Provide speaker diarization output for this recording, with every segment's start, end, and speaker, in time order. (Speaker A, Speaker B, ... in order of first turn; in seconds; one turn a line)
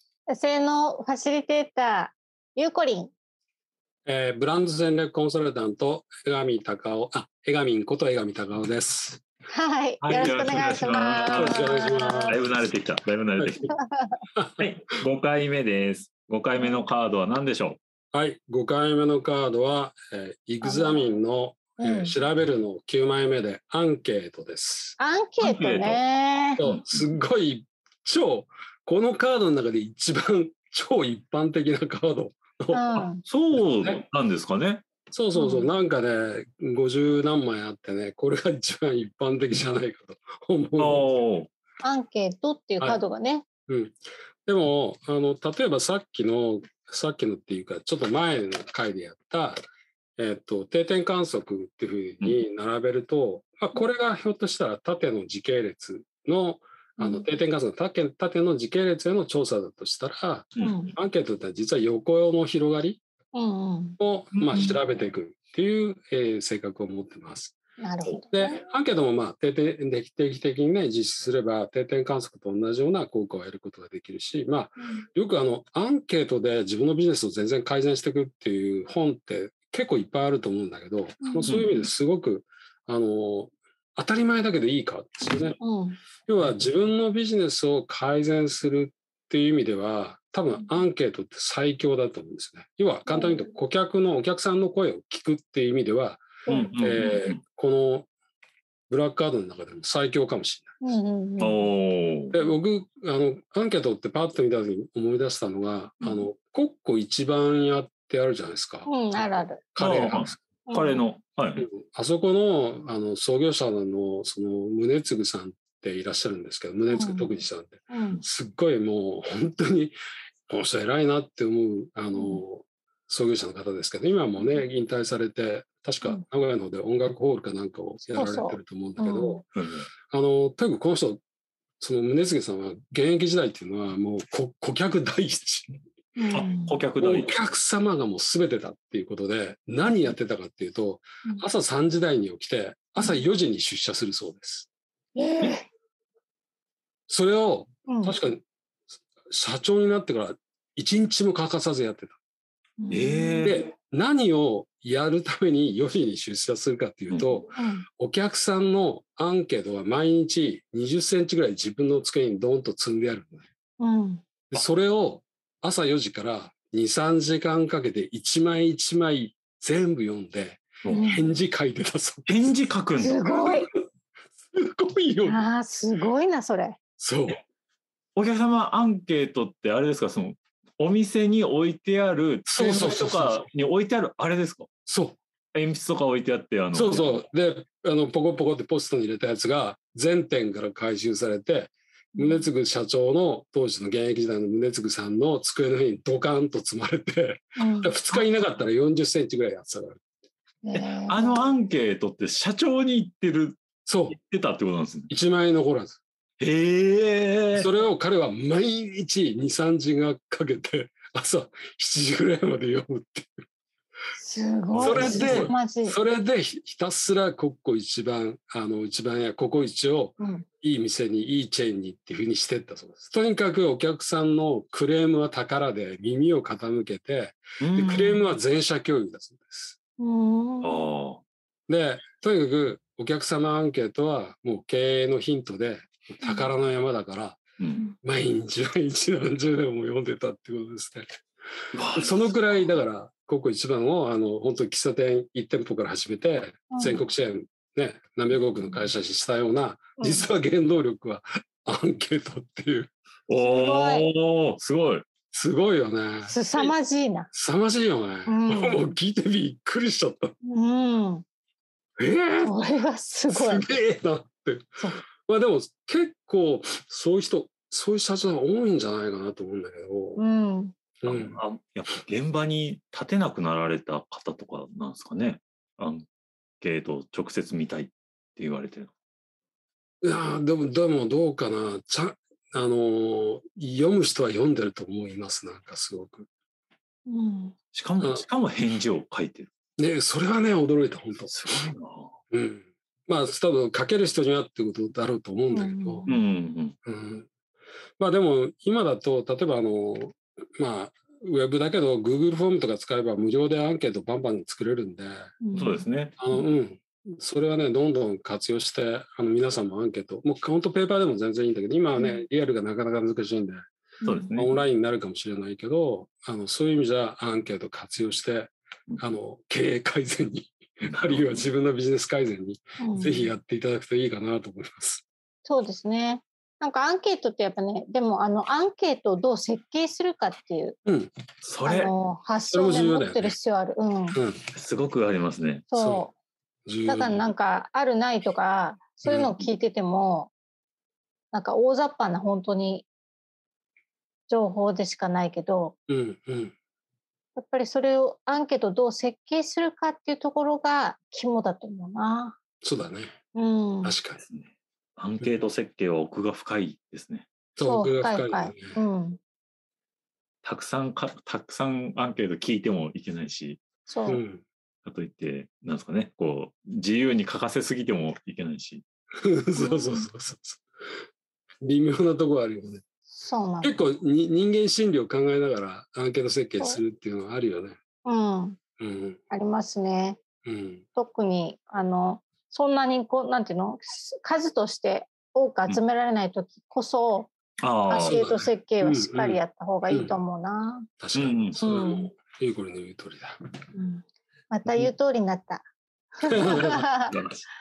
Speaker A: 0.3-3.1
Speaker B: 4.0-9.2
Speaker A: 9.5-12.4
Speaker C: 10.0-11.6
Speaker B: 11.3-12.5
Speaker C: 12.3-13.7
Speaker B: 13.4-13.7
Speaker A: 13.7-14.2
Speaker B: 14.3-14.7
Speaker C: 14.6-17.8
Speaker A: 16.6-16.8
Speaker B: 18.1-25.0
Speaker A: 20.6-21.1
Speaker A: 21.8-22.1
Speaker A: 25.0-26.6
Speaker C: 25.4-26.0
Speaker C: 26.6-27.0
Speaker B: 26.6-34.0
Speaker A: 32.7-33.2
Speaker C: 33.2-34.8
Speaker B: 35.1-41.2
Speaker A: 35.3-35.7
Speaker C: 40.8-41.5
Speaker A: 41.8-43.5
Speaker B: 43.7-49.6
Speaker B: 50.2-63.0
Speaker A: 57.0-57.3
Speaker A: 60.6-60.9
Speaker A: 63.3-64.0
Speaker B: 64.0-67.6
Speaker C: 64.3-64.7
Speaker A: 67.8-68.6
Speaker B: 68.3-85.6
Speaker A: 74.8-75.0
Speaker A: 81.2-81.8
Speaker C: 81.5-81.7
Speaker A: 85.6-86.0
Speaker B: 86.2-98.1
Speaker A: 93.0-93.5
Speaker A: 96.5-97.1
Speaker C: 96.5-97.4
Speaker B: 98.9-101.0
Speaker A: 100.8-101.7
Speaker C: 101.4-102.3
Speaker B: 102.3-110.4
Speaker A: 106.0-106.3
Speaker A: 108.8-109.6
Speaker C: 109.8-111.7
Speaker A: 110.7-111.0
Speaker B: 111.6-120.0
Speaker A: 116.9-117.3
Speaker A: 117.9-118.2
Speaker B: 120.5-129.4
Speaker A: 122.1-122.4
Speaker A: 128.1-129.4
Speaker C: 129.5-129.9
Speaker B: 130.1-131.2
Speaker B: 131.8-135.8
Speaker A: 136.2-136.8
Speaker C: 136.3-137.3
Speaker B: 137.0-144.7
Speaker A: 145.1-145.7
Speaker B: 147.1-148.4
Speaker A: 147.9-148.2
Speaker B: 149.3-152.2
Speaker A: 152.8-153.5
Speaker C: 152.9-153.6
Speaker B: 153.4-163.4
Speaker C: 157.1-157.4
Speaker A: 157.5-157.8
Speaker A: 163.8-164.2
Speaker B: 164.5-172.6
Speaker A: 170.9-171.3
Speaker C: 172.3-173.2
Speaker A: 173.0-173.7
Speaker B: 173.2-173.7
Speaker B: 174.5-175.4
Speaker A: 175.2-176.8
Speaker B: 177.0-177.4
Speaker C: 178.2-184.7
Speaker B: 182.5-183.4
Speaker B: 184.8-185.2
Speaker C: 185.5-187.2
Speaker B: 186.7-200.0
Speaker A: 192.1-192.5
Speaker A: 197.6-197.9
Speaker A: 200.6-201.4
Speaker C: 200.7-203.6
Speaker B: 203.8-204.2
Speaker C: 204.1-205.1
Speaker B: 205.1-206.0
Speaker C: 206.4-207.7
Speaker B: 207.5-213.4
Speaker A: 214.1-216.0
Speaker C: 214.7-215.5
Speaker B: 214.8-229.8
Speaker A: 220.2-220.4
Speaker C: 227.6-228.2
Speaker A: 230.0-230.8
Speaker C: 230.6-231.2
Speaker B: 231.7-237.4
Speaker A: 236.2-236.5
Speaker C: 237.6-237.8
Speaker B: 238.0-241.2
Speaker C: 241.7-242.3
Speaker B: 241.9-252.9
Speaker A: 246.7-247.1
Speaker A: 250.0-250.3
Speaker C: 253.3-255.0
Speaker A: 253.3-254.1
Speaker B: 255.3-256.7
Speaker A: 256.2-257.3
Speaker B: 257.3-260.3
Speaker A: 258.3-258.8
Speaker A: 260.4-261.2
Speaker B: 262.0-262.6
Speaker A: 262.4-263.7
Speaker B: 263.3-270.2
Speaker A: 270.1-270.7
Speaker B: 271.0-271.4
Speaker C: 271.1-276.1
Speaker C: 276.6-278.9
Speaker B: 280.0-286.3
Speaker A: 287.1-287.5
Speaker C: 287.7-289.5
Speaker B: 289.8-291.7
Speaker C: 291.3-292.1
Speaker B: 292.3-296.1
Speaker A: 295.5-296.2
Speaker C: 296.1-296.7
Speaker B: 296.8-297.3
Speaker B: 298.0-305.3
Speaker A: 305.4-306.4
Speaker C: 305.5-306.1
Speaker B: 306.2-313.6
Speaker A: 312.0-312.2
Speaker A: 314.0-314.3
Speaker C: 314.0-314.6
Speaker B: 314.3-325.0
Speaker C: 320.8-321.4
Speaker A: 322.8-323.3
Speaker A: 325.4-330.8
Speaker B: 330.9-331.1
Speaker C: 331.4-331.9
Speaker A: 331.6-334.2
Speaker B: 332.5-333.4
Speaker B: 334.1-334.4
Speaker C: 334.5-335.7
Speaker A: 335.7-336.1
Speaker B: 335.7-336.1
Speaker B: 336.6-337.3
Speaker A: 336.9-340.3
Speaker B: 339.0-339.5
Speaker A: 341.3-342.9
Speaker A: 344.3-345.8
Speaker B: 345.9-346.5
Speaker A: 347.4-352.4
Speaker B: 352.6-353.2
Speaker A: 353.3-353.9
Speaker B: 353.8-354.2
Speaker C: 354.2-357.2
Speaker B: 357.6-358.8
Speaker A: 357.6-359.2
Speaker C: 360.4-363.6
Speaker A: 363.9-364.2
Speaker B: 364.1-364.4
Speaker C: 364.8-368.8
Speaker B: 369.2-370.6
Speaker A: 369.5-370.1
Speaker B: 371.6-372.8
Speaker A: 373.1-373.8
Speaker B: 373.6-377.8
Speaker A: 378.0-378.6
Speaker B: 378.8-379.2
Speaker A: 379.3-380.2
Speaker B: 380.4-380.8
Speaker A: 380.9-387.3
Speaker C: 387.6-388.2
Speaker A: 387.9-390.9
Speaker B: 388.1-390.2
Speaker B: 391.0-393.4
Speaker C: 391.1-391.6
Speaker A: 391.6-392.1
Speaker A: 393.7-395.6
Speaker B: 394.6-394.9
Speaker A: 396.1-397.1
Speaker B: 396.2-396.8
Speaker C: 397.1-397.4